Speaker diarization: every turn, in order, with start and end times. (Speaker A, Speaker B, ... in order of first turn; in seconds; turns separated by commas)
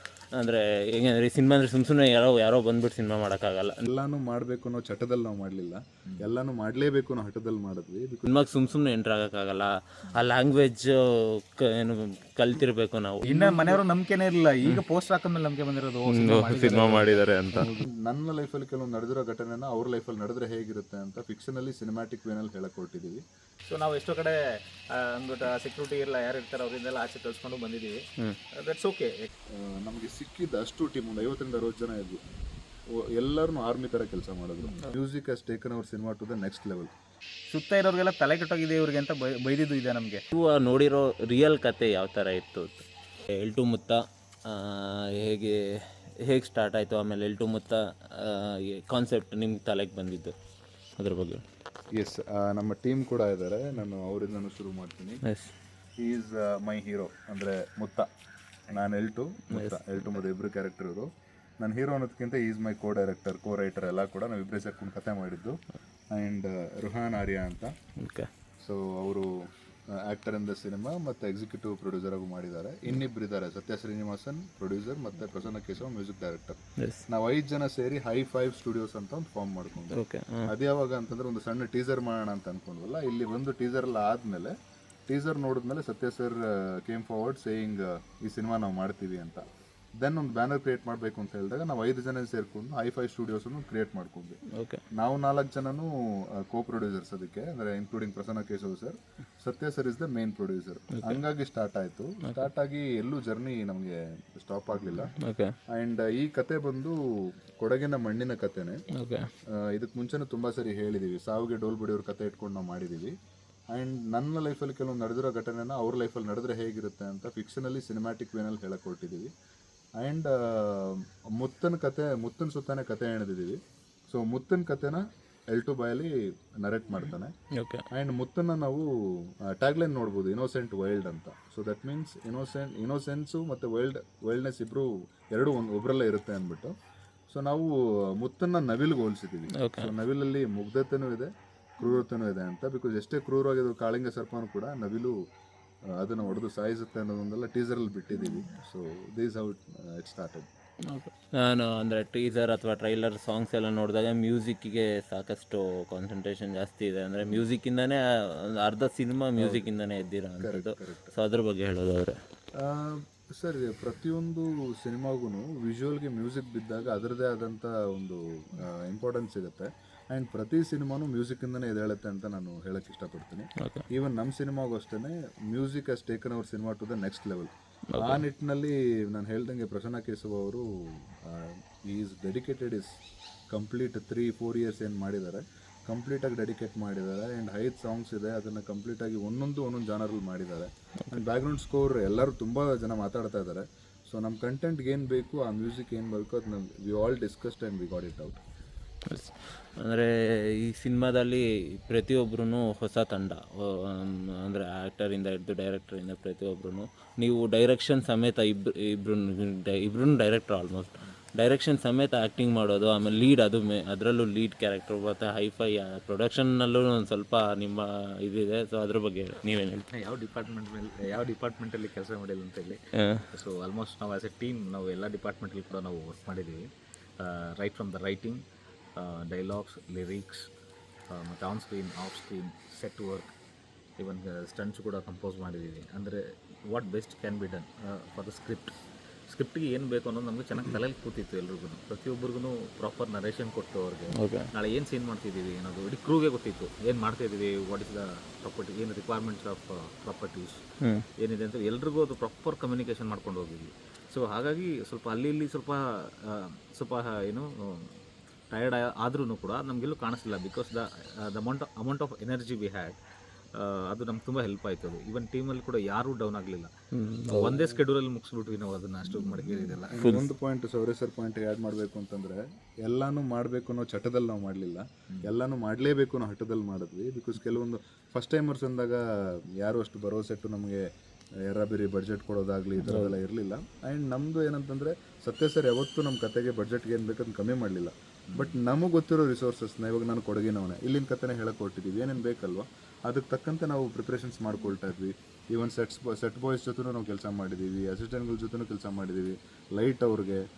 Speaker A: 0.3-3.8, Speaker B: 3.9-8.3, Speaker A: 8.3-13.2, Speaker C: 13.2-17.2, Speaker B: 13.3-13.8, Speaker A: 16.1-17.7, Speaker B: 17.5-23.2, Speaker C: 23.7-24.4, Speaker C: 24.9-28.0, Speaker C: 28.5-29.3, Speaker B: 29.5-32.2, Speaker B: 33.0-36.9, Speaker C: 37.5-40.2, Speaker A: 40.3-42.9, Speaker A: 43.4-50.3, Speaker A: 51.0-51.4, Speaker B: 52.0-55.2, Speaker A: 55.2-55.5, Speaker B: 56.0-58.1, Speaker B: 58.7-61.1, Speaker A: 59.5-59.8, Speaker B: 61.6-65.6, Speaker B: 66.1-67.7, Speaker A: 68.0-68.3, Speaker B: 68.6-84.5, Speaker A: 76.8-77.0, Speaker A: 79.9-80.5, Speaker B: 85.1-89.4, Speaker B: 90.0-94.4, Speaker A: 94.5-94.8, Speaker B: 95.0-105.1, Speaker A: 105.2-105.5, Speaker B: 105.7-106.9, Speaker B: 107.6-108.8, Speaker A: 109.0-109.3, Speaker B: 109.6-113.1, Speaker B: 113.7-119.3, Speaker B: 120.0-123.6, Speaker B: 124.1-127.3, Speaker A: 127.5-127.8, Speaker B: 127.9-136.7, Speaker B: 137.3-145.1, Speaker A: 139.6-139.9, Speaker B: 146.0-150.5, Speaker A: 150.9-162.2, Speaker B: 159.4-159.7, Speaker B: 160.4-161.1, Speaker B: 162.6-182.9, Speaker A: 177.9-178.2, Speaker B: 183.5-198.4, Speaker A: 199.1-219.8, Speaker C: 219.9-222.8, Speaker A: 223.0-223.2, Speaker C: 223.3-226.7, Speaker C: 227.2-228.4, Speaker C: 228.9-230.5, Speaker C: 231.1-233.3, Speaker C: 234.0-238.8, Speaker C: 239.3-250.6, Speaker A: 244.2-244.5, Speaker C: 251.2-257.9, Speaker C: 258.5-262.9, Speaker C: 263.5-266.7, Speaker A: 266.9-267.6, Speaker C: 267.3-270.1, Speaker B: 267.3-267.6, Speaker B: 269.9-280.8, Speaker A: 270.0-270.3, Speaker B: 281.5-300.4, Speaker A: 282.8-283.1, Speaker C: 288.3-288.6